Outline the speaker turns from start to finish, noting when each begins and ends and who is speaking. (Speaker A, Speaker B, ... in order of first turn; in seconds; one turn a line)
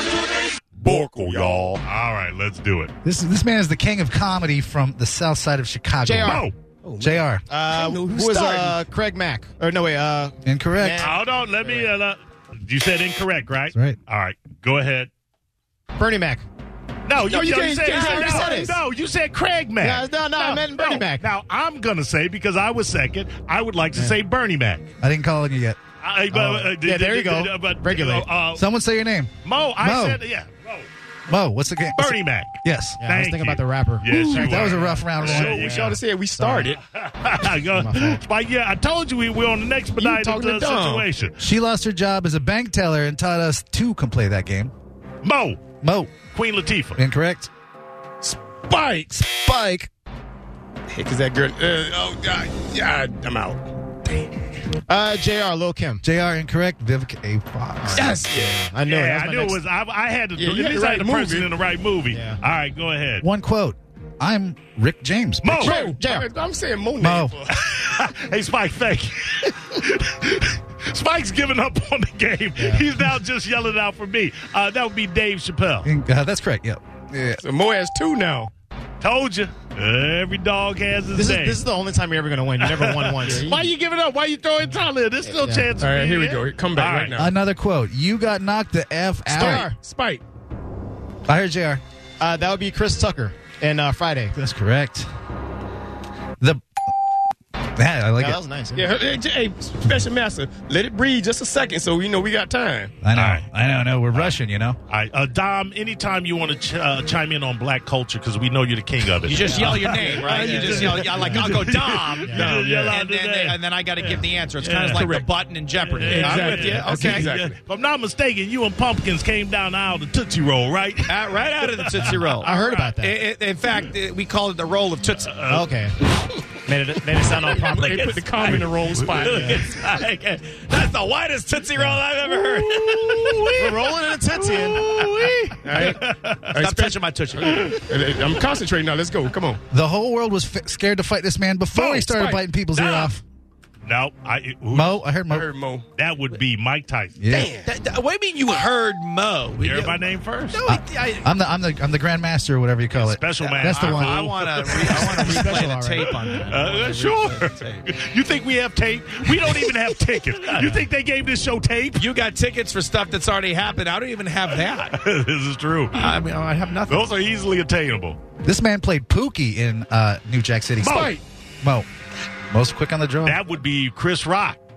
Speaker A: 0.8-1.8
Speaker B: 0.8-2.9
Speaker C: 3.0-6.5
Speaker D: 6.0-11.9
Speaker B: 6.2-6.5
Speaker C: 7.0-7.4
Speaker A: 7.7-8.8
Speaker C: 10.4-11.1
Speaker B: 11.0-15.1
Speaker D: 15.9-16.4
Speaker B: 17.0-24.9
Speaker A: 17.2-18.6
Speaker D: 17.7-18.8
Speaker D: 19.8-21.2
Speaker C: 25.0-25.8
Speaker B: 26.0-28.6
Speaker D: 26.3-28.3
Speaker C: 28.5-30.2
Speaker B: 29.4-30.9
Speaker C: 31.3-33.0
Speaker B: 31.9-36.0
Speaker D: 33.0-36.7
Speaker C: 34.1-35.7
Speaker A: 34.1-34.4
Speaker A: 35.2-36.8
Speaker B: 36.8-41.4
Speaker D: 37.7-38.2
Speaker A: 40.0-41.1
Speaker C: 41.4-44.7
Speaker B: 45.2-45.6
Speaker C: 45.8-46.1
Speaker B: 46.3-47.0
Speaker C: 47.0-47.5
Speaker A: 48.2-49.3
Speaker A: 50.9-54.4
Speaker D: 54.9-56.0
Speaker C: 56.0-58.2
Speaker D: 57.8-59.6
Speaker E: 57.9-58.4
Speaker A: 58.0-58.6
Speaker B: 58.9-63.2
Speaker A: 60.4-61.5
Speaker D: 62.1-62.4
Speaker C: 63.2-65.7
Speaker B: 65.4-65.8
Speaker D: 65.6-66.3
Speaker A: 65.6-67.6
Speaker C: 67.0-67.3
Speaker B: 67.5-75.9
Speaker D: 72.5-72.9
Speaker C: 75.8-77.4
Speaker A: 77.4-78.5
Speaker B: 79.0-81.6
Speaker D: 81.1-83.6
Speaker B: 82.6-87.2
Speaker A: 83.2-83.6
Speaker D: 85.2-85.7
Speaker A: 85.8-87.3
Speaker C: 87.2-89.7
Speaker A: 89.3-90.2
Speaker D: 89.3-89.8
Speaker C: 91.3-91.8
Speaker D: 92.2-94.3
Speaker C: 94.3-95.1
Speaker C: 97.7-98.4
Speaker D: 98.2-98.9
Speaker A: 98.7-102.9
Speaker C: 103.0-104.8
Speaker B: 103.1-104.4
Speaker B: 104.9-115.2
Speaker E: 109.2-117.3
Speaker D: 109.4-111.4
Speaker A: 110.2-111.1
Speaker A: 112.3-113.0
Speaker A: 114.9-115.2
Speaker B: 115.8-122.8
Speaker A: 116.0-117.6
Speaker E: 121.1-125.4
Speaker D: 122.4-123.2
Speaker B: 125.3-125.7
Speaker D: 125.5-125.9
Speaker D: 126.6-128.0
Speaker E: 127.5-133.5
Speaker A: 127.6-129.6
Speaker B: 128.4-129.8
Speaker D: 129.3-129.6
Speaker B: 132.3-136.5
Speaker D: 133.5-134.9
Speaker A: 135.6-139.6
Speaker E: 136.5-137.8
Speaker C: 139.7-143.2
Speaker B: 141.7-143.1
Speaker B: 143.8-145.0
Speaker C: 144.7-145.5
Speaker A: 145.3-145.8
Speaker B: 145.9-147.2
Speaker C: 147.2-147.5
Speaker A: 147.2-147.7
Speaker E: 147.6-151.3
Speaker B: 149.6-150.6
Speaker C: 150.7-154.4
Speaker B: 152.9-162.0
Speaker E: 153.4-157.9
Speaker D: 154.8-156.2
Speaker E: 160.5-160.8
Speaker E: 162.0-165.0
Speaker B: 164.9-166.1
Speaker E: 165.9-167.1
Speaker B: 166.9-168.2
Speaker C: 168.4-171.9
Speaker B: 170.8-171.2
Speaker A: 170.8-171.2
Speaker C: 172.5-173.4
Speaker B: 173.2-174.6